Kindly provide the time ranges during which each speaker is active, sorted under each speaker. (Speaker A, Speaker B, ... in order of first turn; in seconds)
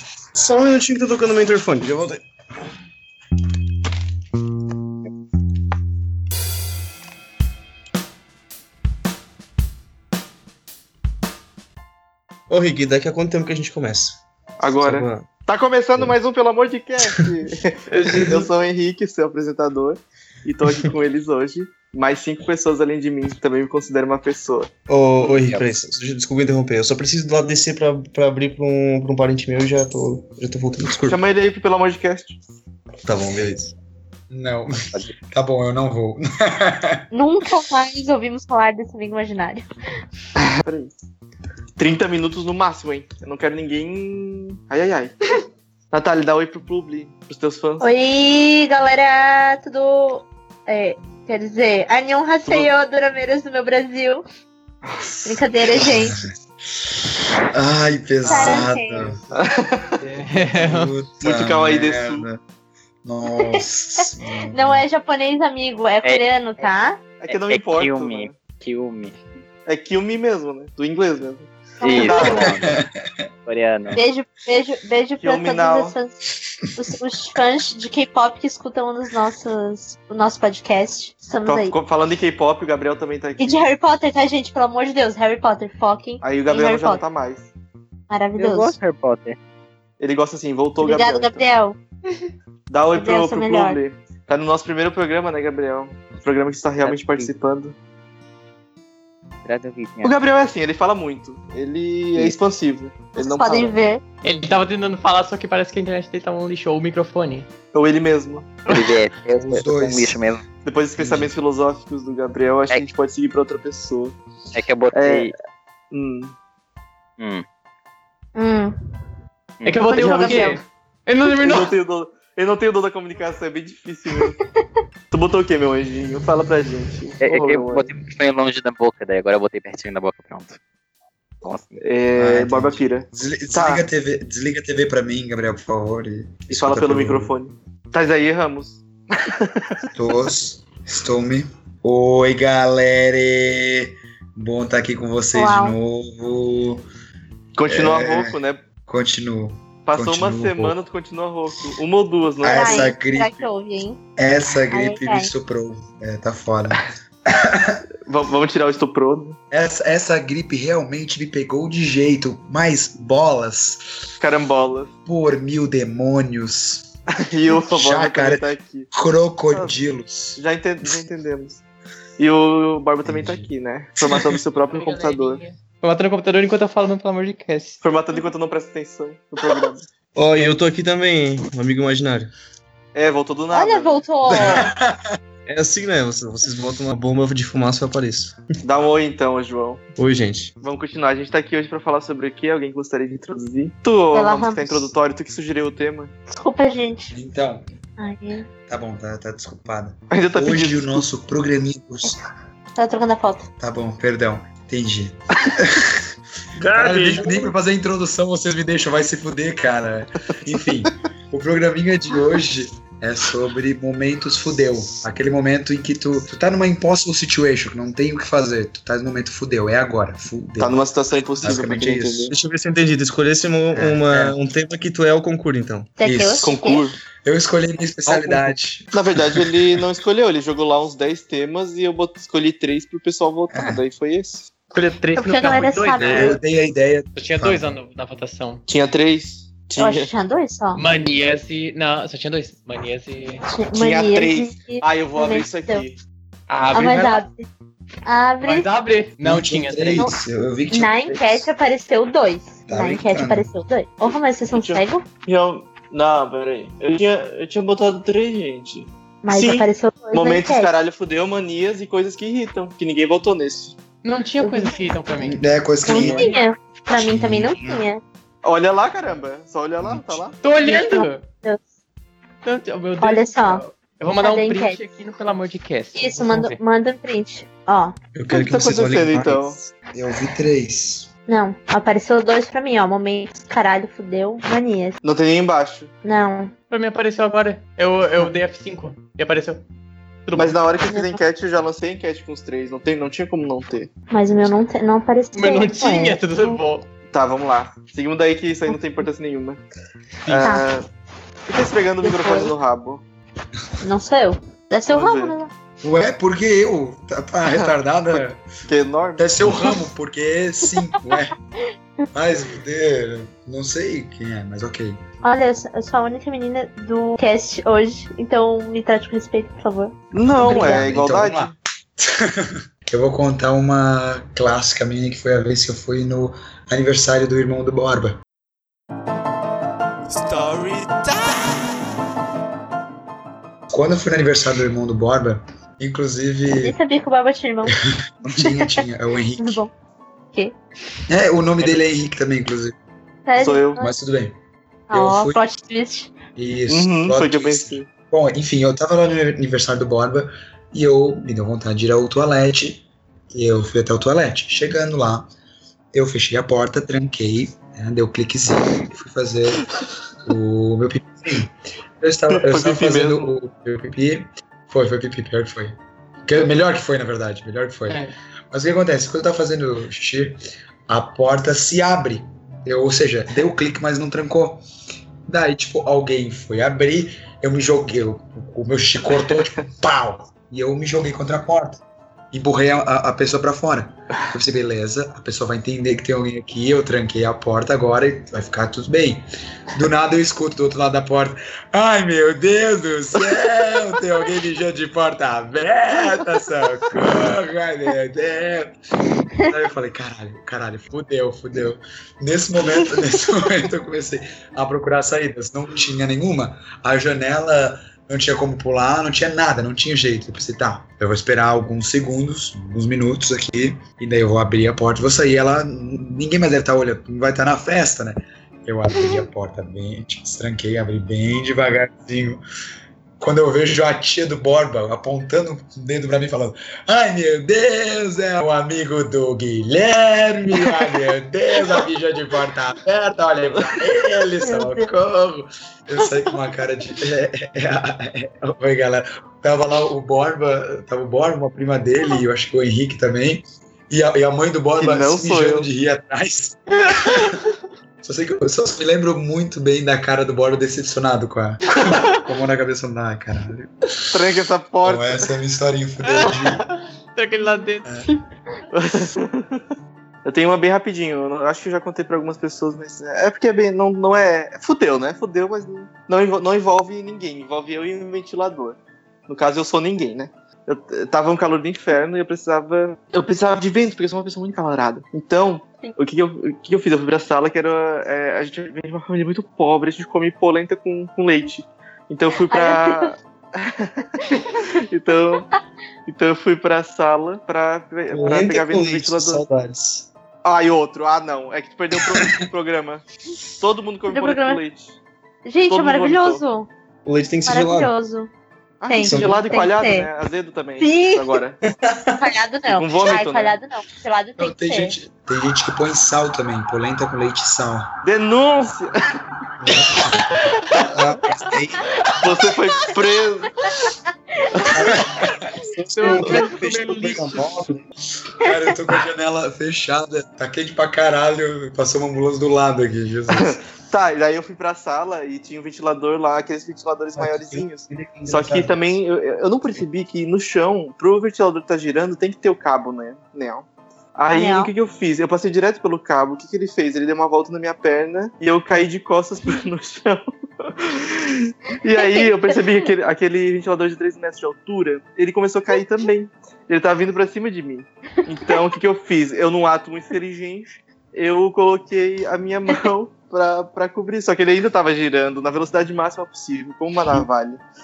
Speaker A: 0.3-2.2, 12.5-14.2, 14.8-15.3, 24.9-31.2, 33.0-33.7, 180.1-182.3, 185.4-188.4, 190.0-190.5, 206.7-206.9, 222.3-225.9, 228.1-228.5, 278.1-279.7, 488.1-490.1, 497.0-497.9, 499.0-499.4, 501.6-502.3, 510.9-511.8, 514.7-515.0, 515.5-517.9
Speaker B: 14.6-24.7, 31.1-32.4, 40.6-40.9, 41.8-45.2, 45.9-47.8, 54.8-55.4, 59.3-60.0, 61.2-62.3, 67.2-68.3, 69.7-72.7, 75.2-76.0, 81.5-83.7, 86.2-87.5, 90.0-91.4, 92.7-97.7, 100.0-103.8, 107.7-108.6, 110.6-114.2, 114.9-115.3, 115.9-116.3, 119.9-120.6, 121.3-124.4, 125.1-127.9, 131.8-133.8, 136.5-139.8, 147.5-148.6, 149.9-152.9, 158.1-159.4, 164.2-164.9, 167.2-168.9, 170.4-171.6, 172.2-175.4, 177.8-179.9, 182.9-184.0, 188.6-189.9, 190.6-196.1, 200.1-201.0, 206.6-207.5, 220.6-222.3, 226.4-227.0, 228.9-234.5, 238.7-240.1, 243.7-245.9, 254.5-263.8, 268.4-270.4, 278.3-279.6, 285.0-285.9, 290.3-293.9, 297.1-299.6, 300.3-300.9, 301.5-303.0, 304.9-305.4, 307.5-309.7, 320.1-321.5, 330.2-330.9, 343.4-343.8, 346.7-347.9, 362.3-363.3, 444.8-445.7, 454.1-455.3, 458.7-459.6, 460.2-485.5, 486.1-489.4, 490.4-495.0, 495.7-496.4, 498.8-501.6, 502.7-503.6, 508.0-509.1, 512.2-513.5, 514.6-514.8, 523.3-557.6
Speaker C: 17.9-18.5, 60.0-60.9, 104.2-107.5, 119.6-121.7, 127.3-127.7, 174.7-177.8, 234.7-236.4, 237.2-238.6, 240.7-243.4, 246.5-247.2, 248.4-250.1, 264.0-266.4, 270.4-271.2, 272.4-276.6, 286.7-289.6, 290.3-290.6, 295.3-296.9, 446.9-447.5, 456.0-458.2, 515.9-517.6
Speaker D: 34.3-37.0, 55.7-56.2, 57.5-59.2, 60.5-62.4, 63.0-64.8, 72.5-73.3, 109.3-110.2, 111.0-111.3, 132.1-137.3, 139.9-146.8, 147.6-150.8, 152.4-153.4, 154.2-157.8, 159.5-163.8, 165.1-166.9, 167.5-170.9, 173.0-173.5, 174.0-174.4, 184.3-185.1, 197.1-197.6, 198.7-202.2, 203.6-206.0, 206.7-220.8, 221.4-222.3, 223.7-224.4, 226.0-226.6, 227.2-229.5, 233.5-233.8, 236.0-237.7, 249.2-251.5, 252.7-253.5, 265.2-266.3, 266.9-267.8, 269.8-270.2, 279.9-281.1, 305.8-308.4, 309.2-311.3, 312.1-315.0, 320.3-328.2, 333.7-336.8, 338.2-339.6, 341.1-342.7, 343.7-344.4, 344.9-345.4, 346.4-355.3, 355.9-359.7, 360.2-374.6, 375.2-398.8, 399.4-422.4, 423.2-447.4, 448.0-453.9, 454.8-456.6, 504.4-507.9, 509.6-510.3, 514.8-515.5, 518.4-523.6, 527.2-528.7
Speaker E: 37.1-39.6, 47.8-54.2, 55.2-56.2, 58.2-59.1, 64.5-67.0, 71.8-72.5, 73.9-76.2, 76.7-81.8, 83.4-87.0, 88.1-88.8, 90.8-91.8, 92.9-93.8, 103.2-104.0, 118.3-118.8, 120.0-120.5, 145.3-145.7, 152.4-154.0, 154.7-155.3, 183.5-184.7, 194.1-194.9, 196.3-197.1, 198.0-198.5, 202.8-203.5, 226.0-226.8, 235.1-236.4, 239.8-240.8, 243.4-245.8, 246.7-247.4, 248.0-248.7, 250.7-255.0, 259.2-260.7, 264.4-264.8, 265.8-268.0, 270.6-271.6, 273.0-273.6, 274.2-274.8, 275.9-277.9, 281.3-285.0, 286.0-286.5, 290.9-291.2, 294.1-296.6, 302.0-302.5, 303.8-305.5, 315.2-320.9, 336.6-337.8, 338.3-338.8, 339.4-339.7, 343.3-343.9, 344.9-346.1, 434.4-434.9, 482.5-483.1, 494.1-494.6, 495.4-496.7, 497.4-498.3, 498.9-500.1, 500.8-501.4, 502.2-504.9, 534.3-534.7, 542.0-542.3
Speaker F: 67.3-69.2, 71.8-72.8, 73.5-74.0, 88.4-89.4, 96.8-97.3, 99.4-100.1, 108.7-110.4, 114.5-115.3, 117.2-117.4, 119.6-120.3, 127.2-130.6, 131.4-131.8